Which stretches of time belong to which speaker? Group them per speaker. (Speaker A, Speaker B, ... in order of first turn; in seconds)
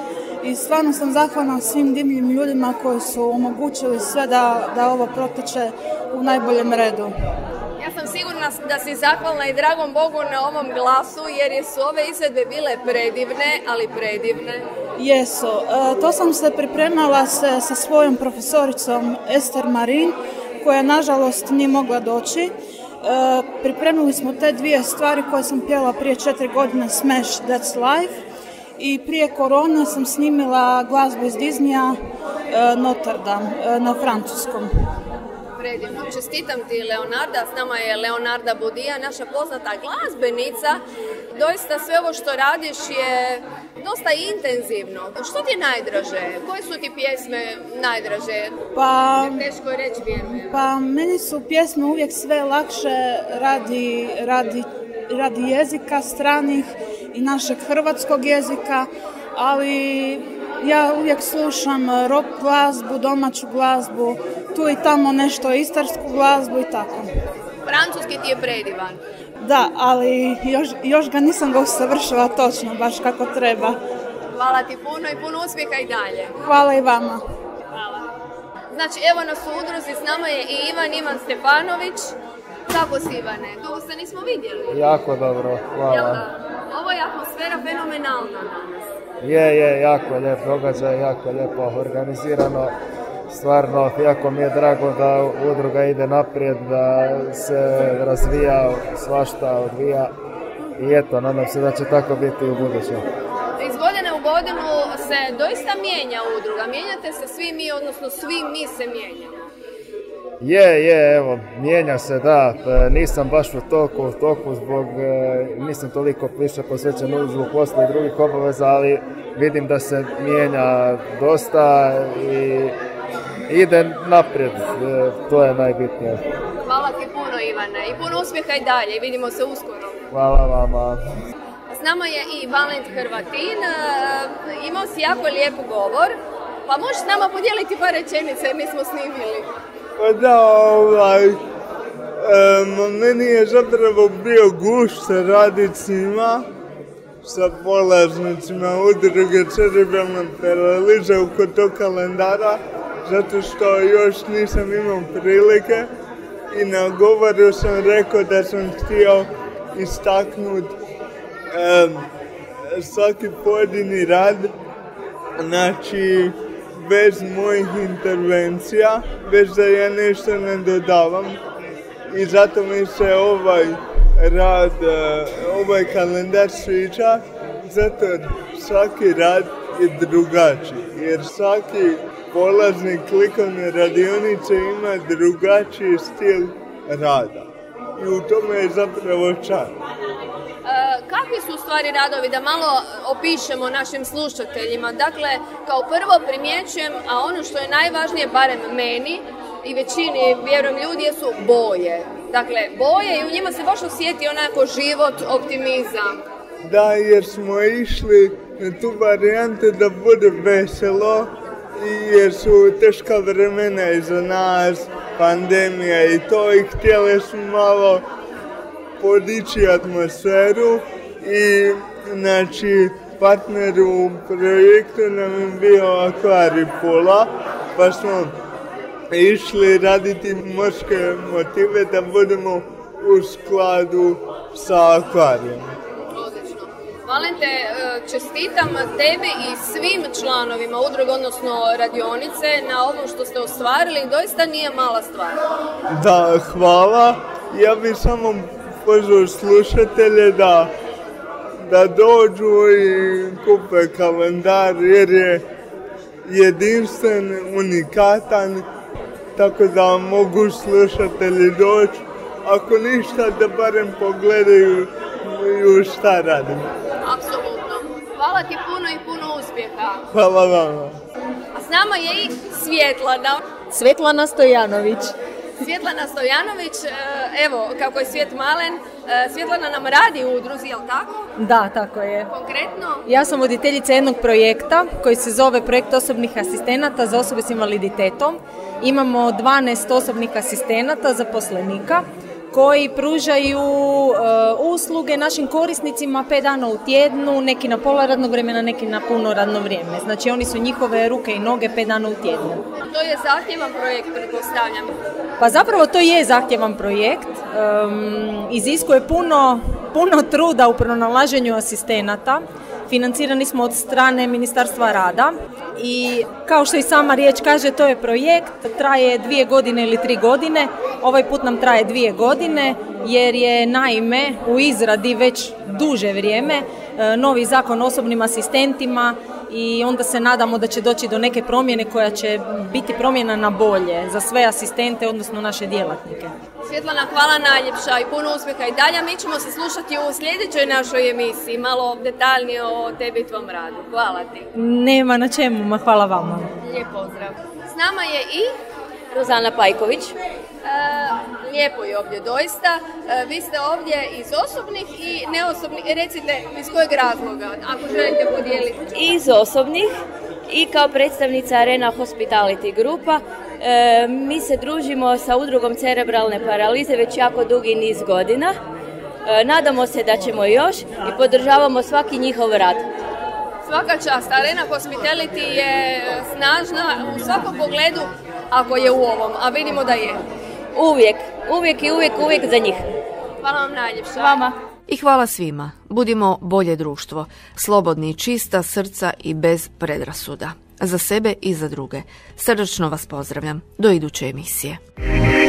Speaker A: 0.4-7.1, 15.0-22.5, 23.0-28.2, 28.8-31.9, 32.5-34.7, 48.7-49.4, 50.2-67.1, 69.4-73.8, 76.4-77.2
Speaker B: 7.8-14.7, 35.6-40.8, 41.3-48.5, 49.1-50.5, 67.7-69.0, 74.3-76.3, 77.7-78.1, 78.7-82.1, 82.7-84.9, 85.9-88.9, 103.6-109.4, 126.7-130.0, 131.7-136.2, 136.7-139.5, 190.6-206.2, 236.1-245.4, 267.0-270.0, 271.5-273.4, 275.6-281.3, 282.3-283.1, 302.9-304.9, 336.6-344.5, 346.6-348.5, 349.1-349.7, 350.6-359.1, 373.6-380.2, 383.4-384.5
Speaker C: 84.7-86.2, 89.2-92.7, 93.3-100.1, 100.8-103.0, 110.4-122.8, 123.5-126.2, 130.1-131.0
Speaker D: 140.0-141.4, 142.2-146.4, 147.2-155.9, 156.5-160.8, 161.5-162.1, 162.7-164.5, 165.4-171.4, 172.1-189.8, 206.6-218.0, 219.0-228.3, 229.1-235.6, 245.9-250.7, 251.6-255.4, 256.3-258.6, 259.4-266.7, 270.1-271.0
Speaker E: 273.7-275.1, 281.4-282.3, 283.0-302.6, 305.4-336.3, 344.5-346.5
Speaker F: 349.3-350.1, 358.9-359.9, 360.5-368.6, 369.2-372.9, 380.7-382.8, 384.2-384.5
Speaker G: 384.9-394.8